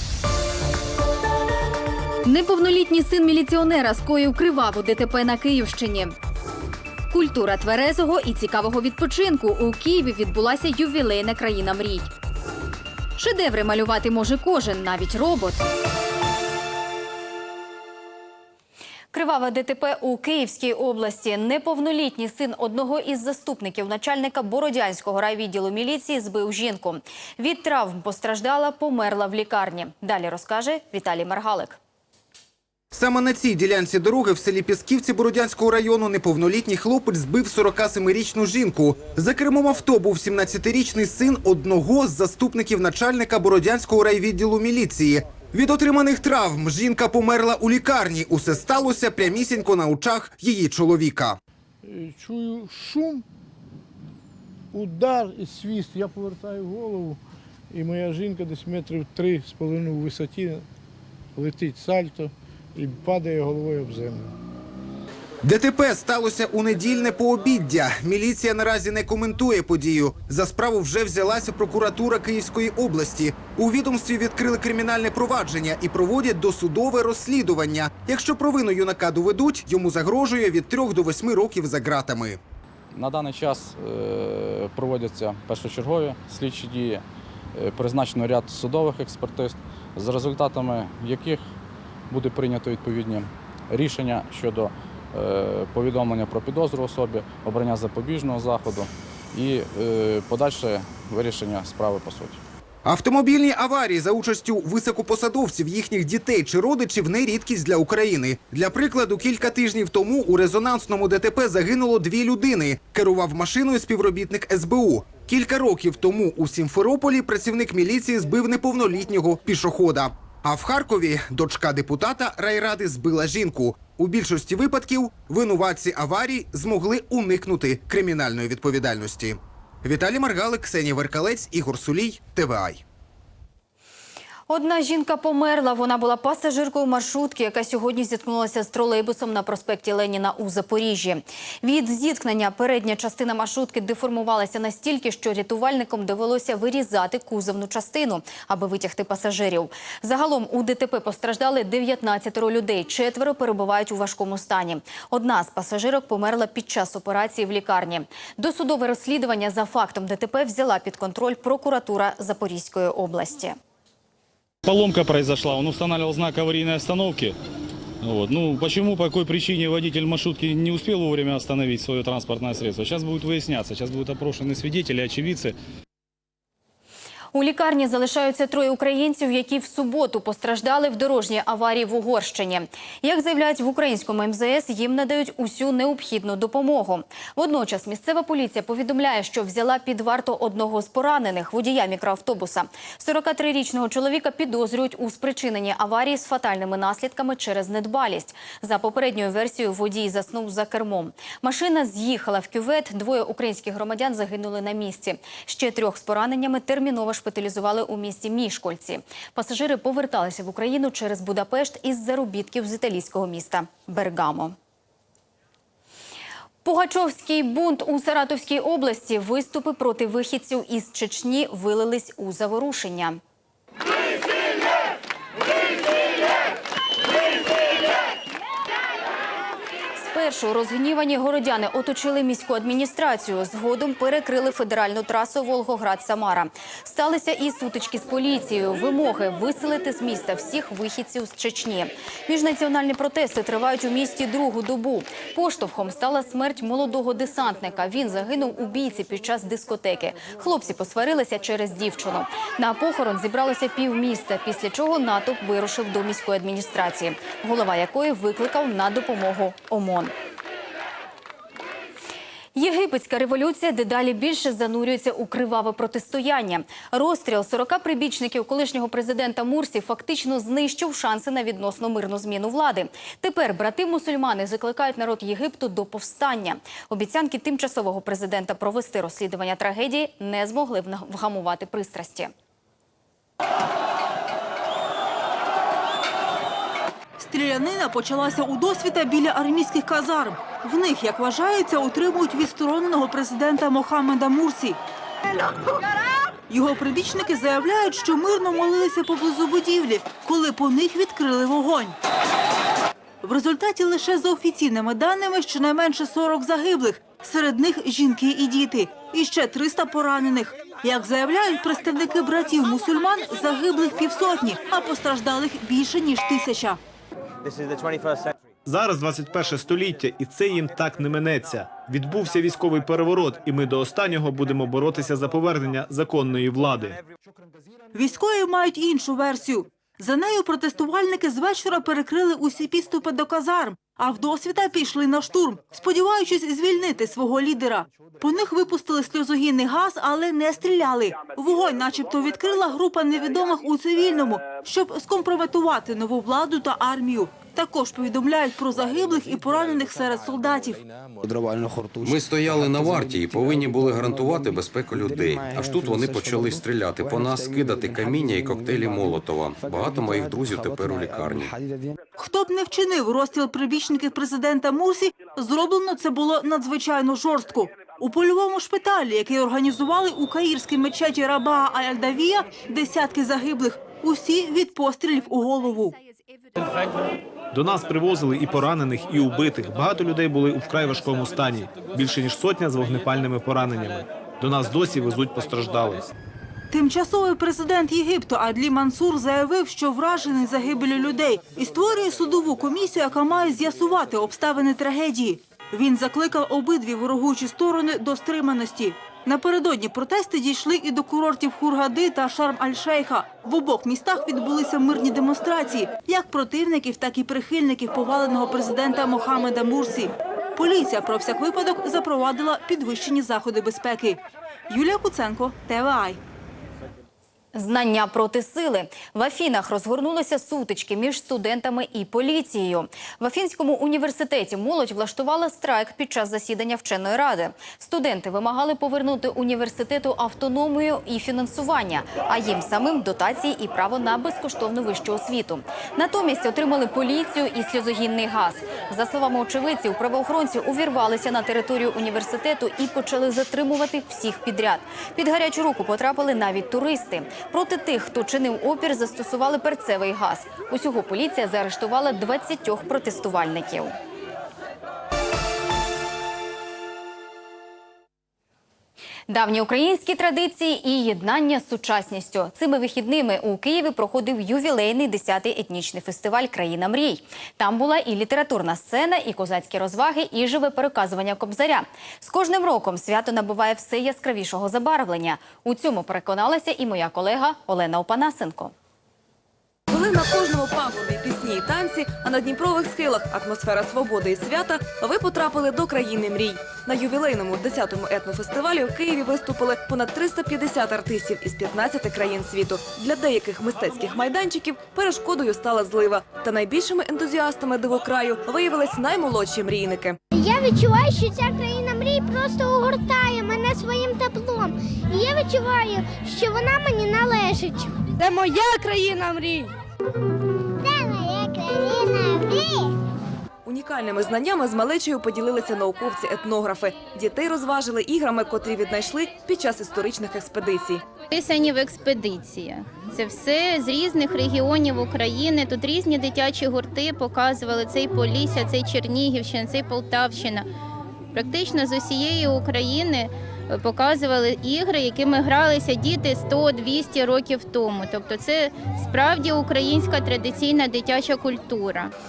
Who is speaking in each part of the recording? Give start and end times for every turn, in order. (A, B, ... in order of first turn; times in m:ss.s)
0:02.2-0:06.2 A
0:07.1-0:12.1 A
0:13.2-0:15.6 A
0:19.1-0:31.8 A
0:32.9-0:51.4 B
0:51.8-0:53.2 C
0:54.7-0:57.2 C
0:57.7-1:00.6 C
1:01.4-1:04.3 C
1:05.4-1:22.4 B
1:22.9-1:27.0 D
1:27.5-1:31.4 D
1:32.1-1:42.4 D
1:42.8-2:12.8 B
2:14.5-2:43.6 A
2:44.6-2:47.4 E
2:48.0-2:55.5 E
2:57.3-3:34.6 A
3:36.6-3:43.2 A
3:50.0-4:20.1 A
4:22.5-4:42.3 A
4:47.2-4:54.8 F
4:56.5-5:02.0 F
5:03.2-5:16.8 F
5:18.6-5:27.0 G
5:27.9-5:50.8 F
5:52.0-6:01.5 H
6:02.2-6:15.9 F
6:17.5-6:26.0 G
6:26.7-6:56.2 F
6:57.5-7:33.9 A
7:39.3-7:58.7 A
7:59.9-8:20.2 I
8:20.3-8:29.7 J
8:30.8-8:32.9 J
8:33.6-8:41.1 I
8:41.3-8:50.7 K
8:51.3-9:02.1 K